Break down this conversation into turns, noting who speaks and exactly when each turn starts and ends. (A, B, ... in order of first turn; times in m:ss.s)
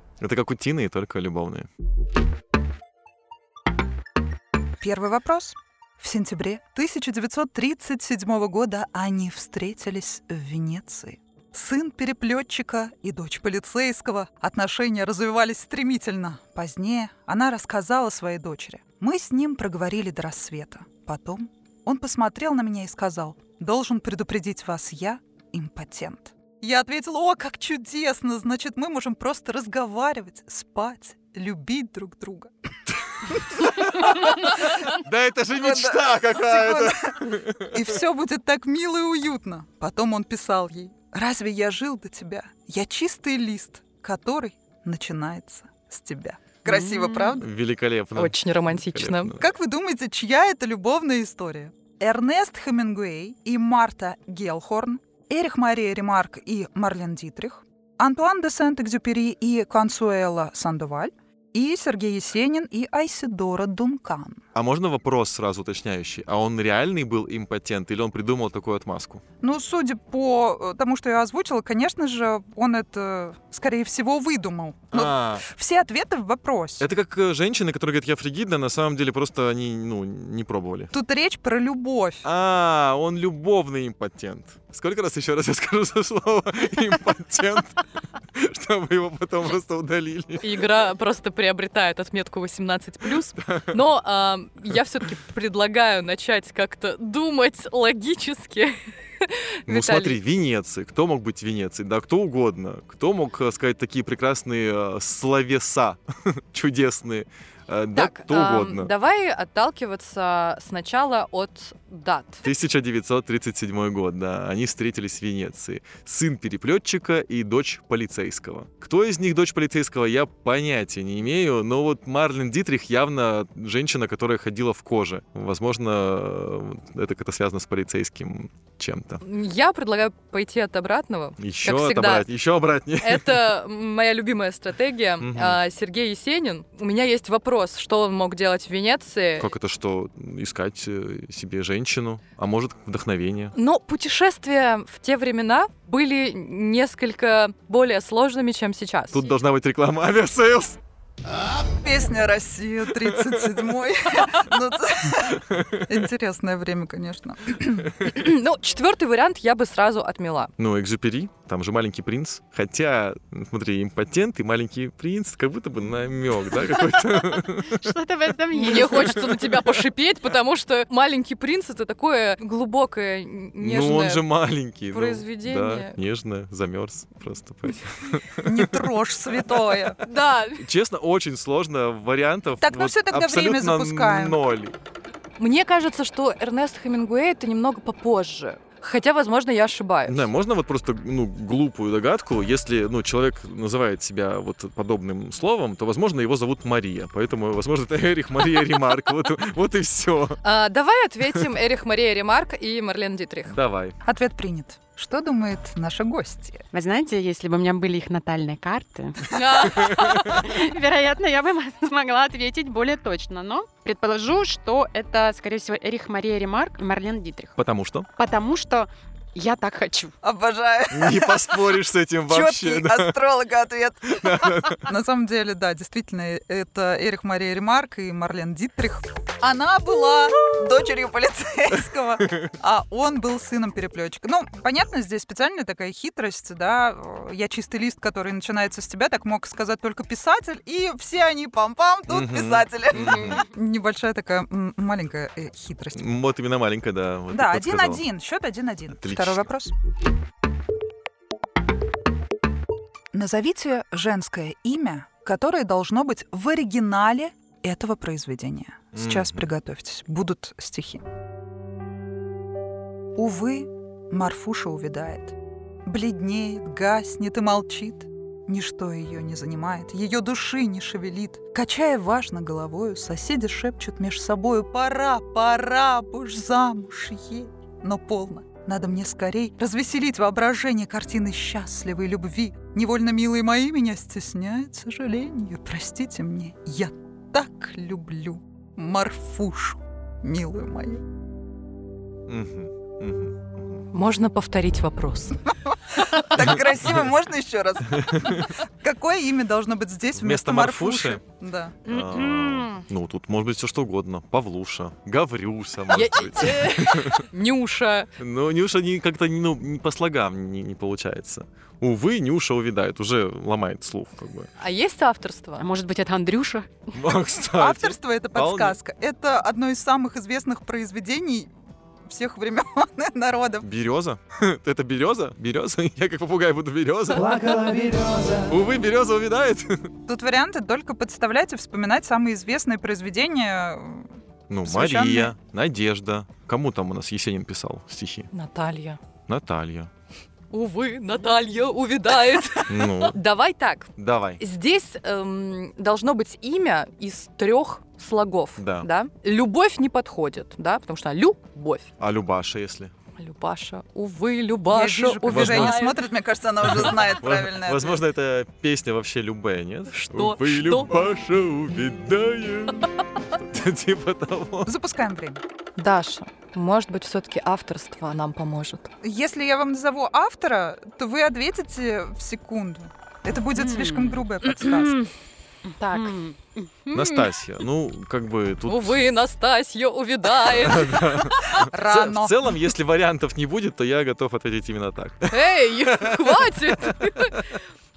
0:00.2-0:01.7 A
0:04.8-0:32.5 B
0:33.3-0:34.9 B
0:33.6-0:37.9 A
0:35.5-0:47.5 B
0:46.7-0:47.3 C
0:47.3-0:49.4 A
0:48.2-0:49.4 D
0:49.4-1:04.4 B
1:04.5-1:09.2 A
1:09.4-1:16.8 B
1:14.9-1:15.4 A
1:16.8-1:20.9 A
1:20.9-1:22.2 B
1:22.2-1:30.6 A
1:30.4-1:40.2 D
1:33.4-1:33.8 A
1:39.7-1:48.9 A
1:47.9-1:52.4 D
1:52.4-2:09.2 A
2:09.2-2:12.3 D
2:11.4-2:13.5 A
2:13.0-2:19.5 D
2:15.2-2:15.6 A
2:19.4-2:23.5 A
2:23.5-2:29.3 D
2:29.1-2:30.8 A
2:31.8-2:38.0 B
2:33.0-2:33.4 A
2:35.4-2:35.8 A
2:38.0-2:40.5 D
2:40.6-2:47.8 A
2:47.1-2:49.6 C
2:48.5-2:54.2 D
2:53.6-2:58.9 A
2:54.9-2:56.0 D
2:58.4-3:00.0 B
3:00.0-3:00.7 D
3:00.6-3:04.8 A
3:02.6-3:04.4 B
3:05.4-3:10.3 D
3:10.0-3:20.4 A
3:20.4-3:23.6 D
3:23.5-3:24.0 A
3:24.0-3:26.6 B
3:26.7-3:37.6 C
3:29.3-3:30.3 D
3:37.6-3:38.1 A
3:38.2-3:40.1 C
3:40.2-4:06.0 B
3:40.9-3:43.2 A
3:44.1-3:44.9 A
3:52.2-3:52.5 A
4:02.1-4:03.4 A
4:03.0-4:03.4 C
4:05.9-4:08.0 A
4:07.3-4:09.7 B
4:08.9-4:09.5 A
4:13.1-4:21.0 B
4:18.9-4:19.4 A
4:23.2-4:51.0 B
4:52.3-4:53.9 A
4:53.9-4:55.4 D
4:55.9-5:01.8 B
4:58.0-4:58.4 A
5:00.1-5:01.2 A
5:01.8-5:07.3 A
5:01.8-5:02.8 D
5:05.9-5:08.1 D
5:08.2-5:14.5 A
5:14.6-5:15.6 D
5:15.6-5:16.9 C
5:16.9-5:18.8 A
5:17.5-5:21.5 B
5:22.0-5:23.7 B
5:23.6-5:29.9 A
5:30.0-5:34.1 B
5:34.5-5:38.3 A
5:34.6-5:35.3 B
5:38.3-5:39.0 D
5:39.3-5:39.9 A
5:40.5-5:51.9 D
5:42.7-5:43.2 A
5:44.0-5:44.4 A
5:48.6-5:48.9 A
5:52.0-5:52.9 A
5:53.2-5:56.0 D
5:54.7-5:58.0 B
5:55.3-5:55.8 A
5:56.6-6:04.7 A
5:59.9-6:00.9 D
6:04.6-6:05.4 B
6:05.8-6:08.9 D
6:09.0-6:15.0 B
6:13.5-6:14.3 C
6:14.6-6:15.1 D
6:15.8-6:16.2 D
6:15.8-6:17.0 C
6:16.9-6:19.0 A
6:18.7-6:21.3 D
6:20.4-6:27.4 A
6:21.6-6:22.4 B
6:25.3-6:27.5 D